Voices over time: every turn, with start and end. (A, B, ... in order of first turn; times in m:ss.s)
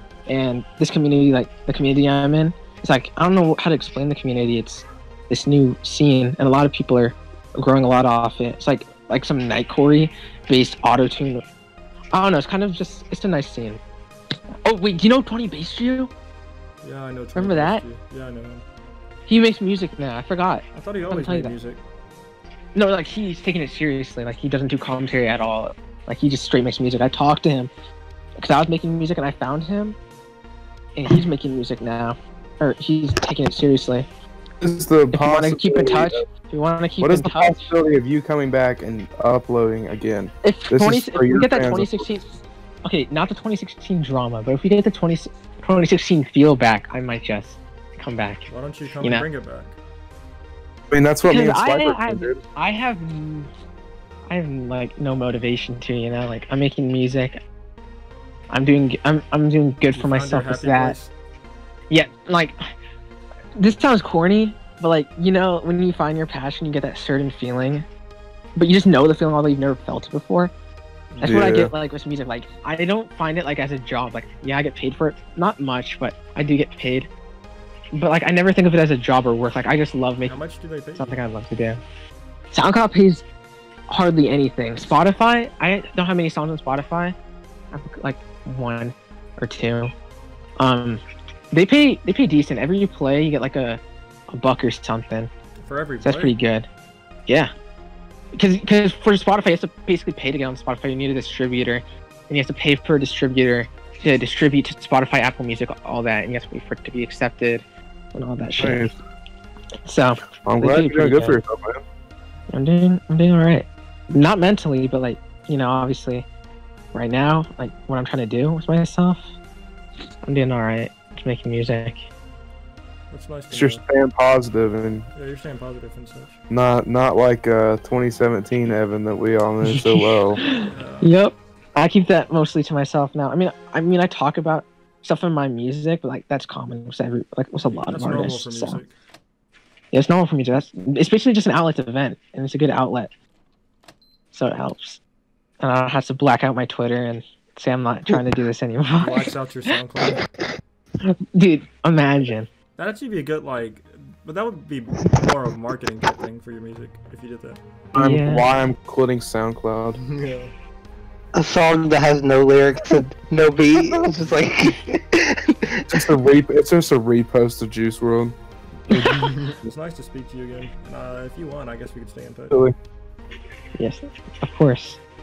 0:00.3-0:11.4 A
0:12.1-0:13.8 A
0:14.6-0:16.1 A
0:16.8-0:18.6 B
0:17.4-0:17.8 A
0:19.3-0:21.5 A
0:20.7-0:21.8 B
0:22.7-0:27.7 A
0:28.4-0:30.0 A
0:31.0-0:34.1 A
0:34.6-0:36.2 C
0:35.1-0:37.7 A
0:37.0-0:42.1 C
0:40.4-0:42.3 A
0:42.8-0:48.5 A
0:48.5-0:49.8 B
0:49.0-0:49.3 A
0:50.9-0:52.4 C
0:51.3-0:53.5 A
0:54.3-0:57.4 A
0:58.5-1:01.0 A
0:59.9-1:01.1 B
1:01.9-1:02.6 A
1:03.6-1:07.8 A
1:08.6-1:10.5 A
1:11.1-1:11.6 B
1:11.2-1:17.1 A
1:11.2-1:11.7 C
1:17.9-1:20.4 A
1:20.2-1:21.2 B
1:21.0-1:21.8 A
1:22.5-1:23.2 A
1:23.9-1:27.1 A
1:27.7-1:29.9 A
1:30.6-1:31.0 A
1:31.5-1:35.3 A
1:35.6-1:36.3 B
1:36.0-1:36.7 A
1:38.3-1:48.9 A
1:48.6-1:48.9 C
1:49.8-1:51.4 A
1:50.4-1:51.8 C
1:52.5-1:56.3 A
1:56.9-1:59.3 A
2:00.2-2:02.0 A
2:03.1-2:03.8 B
2:03.5-2:05.0 C
2:05.1-2:06.4 B
2:06.5-2:10.4 C
2:10.4-2:18.8 A
2:10.5-2:11.1 B
2:17.6-2:18.9 B
2:19.9-2:23.1 A
2:24.3-2:25.0 A
2:25.6-2:29.2 A
2:29.0-2:30.2 B
2:31.3-2:32.5 A
2:32.8-2:37.6 B
2:37.9-2:40.0 C
2:38.0-2:38.5 A
2:40.0-2:40.5 B
2:41.3-2:45.8 D
2:45.9-2:48.4 C
2:48.9-2:49.3 C
2:48.9-2:52.6 B
2:53.8-2:55.0 A